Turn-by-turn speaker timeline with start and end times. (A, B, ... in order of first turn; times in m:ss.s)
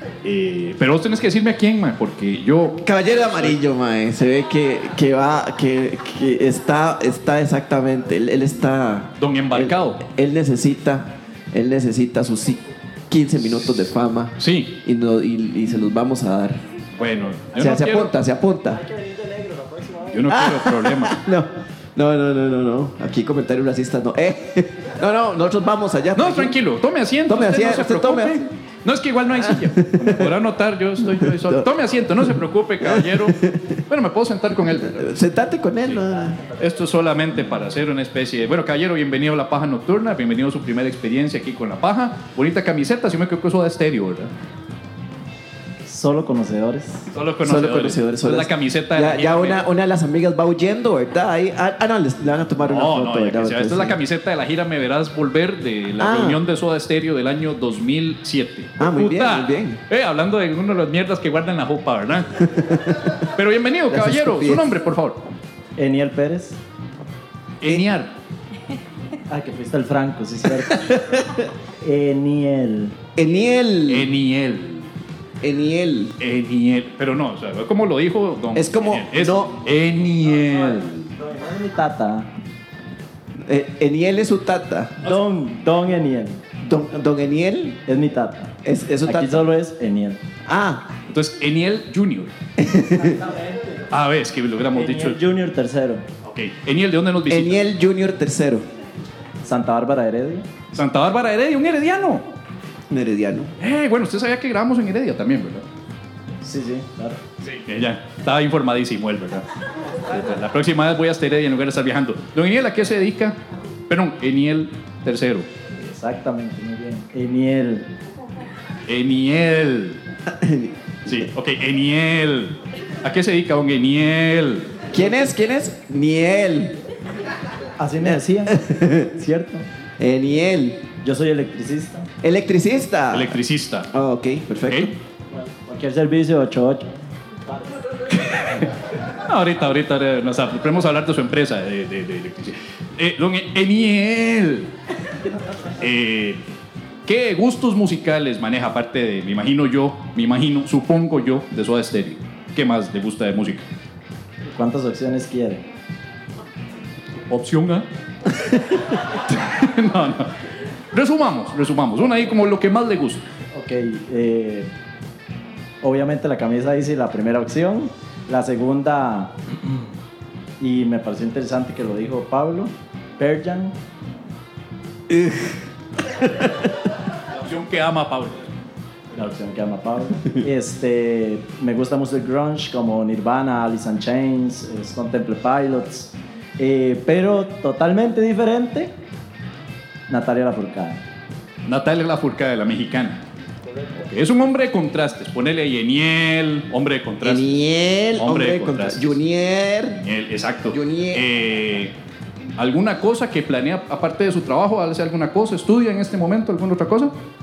0:00.2-0:02.8 A
0:02.8-0:16.6 B
0:09.2-0:10.0 A
0:14.4-0:14.7 A
0:17.0-0:18.1 A
0:17.5-0:18.8 B
0:18.7-0:20.3 C
0:20.1-0:21.2 A
0:20.3-0:26.5 B
0:26.1-0:35.1 A
0:27.3-0:28.4 B
0:29.4-0:30.3 B
0:31.0-0:31.7 B
0:32.8-0:33.8 B
0:34.8-0:36.4 B
0:36.6-0:44.3 A
0:45.8-0:47.1 C
0:47.1-0:49.6 A
0:47.4-0:54.0 B
0:52.6-1:02.4 A
0:56.0-0:56.4 B
0:58.8-0:59.8 B
1:02.5-1:03.1 B
1:03.3-1:05.2 A
1:03.9-1:04.8 B
1:05.8-1:06.6 C
1:07.6-1:08.1 A
1:09.3-1:11.3 C
1:10.7-1:11.4 B
1:11.8-1:13.0 C
1:13.2-1:14.1 B
1:13.9-1:14.9 A
1:15.4-1:16.2 B
1:16.2-1:21.1 A
1:18.5-1:19.6 B
1:21.2-1:22.3 C
1:23.4-1:25.1 B
1:25.0-1:26.4 C
1:26.6-1:27.8 B
1:27.8-1:28.5 C
1:28.6-1:29.5 B
1:29.0-1:30.2 C
1:30.4-1:30.9 B
1:31.1-1:32.3 A
1:32.6-1:33.2 B
1:33.0-1:33.8 C
1:33.9-1:35.2 A
1:34.7-1:36.0 C
1:36.2-1:37.7 A
1:37.3-1:38.6 B
1:39.4-1:40.5 C
1:40.7-1:42.3 A
1:42.9-1:43.5 B
1:43.6-1:45.6 A
1:46.4-1:47.2 C
1:47.4-1:49.4 A
1:50.0-1:55.5 A
1:55.8-1:57.9 C
1:58.9-2:00.0 A
2:00.3-2:00.7 B
2:01.0-2:04.8 A
2:04.9-2:06.8 B
2:07.8-2:09.6 C
2:08.0-2:09.1 B
2:10.0-2:10.9 B
2:11.0-2:12.1 C
2:12.2-2:13.4 B
2:13.1-2:13.9 A
2:13.9-2:14.9 B
2:14.7-2:14.9 A
2:15.3-2:16.9 C
2:18.2-2:24.7 A
2:25.8-2:26.4 A
2:27.0-2:33.6 A
2:34.5-2:35.6 C
2:37.3-2:37.8 A
2:39.1-2:40.3 A
2:40.9-2:43.2 A
2:43.5-2:44.7 C
2:45.8-2:49.4 C
2:50.6-2:53.7 C
2:55.1-2:55.6 B
2:57.4-2:58.4 A
2:59.1-3:08.9 C
3:10.1-3:11.0 C
3:11.6-3:13.2 A
3:14.0-3:17.6 A
3:17.2-3:20.0 B
3:18.2-3:19.2 A
3:20.0-3:21.9 A
3:20.7-3:21.2 B
3:22.6-3:27.1 A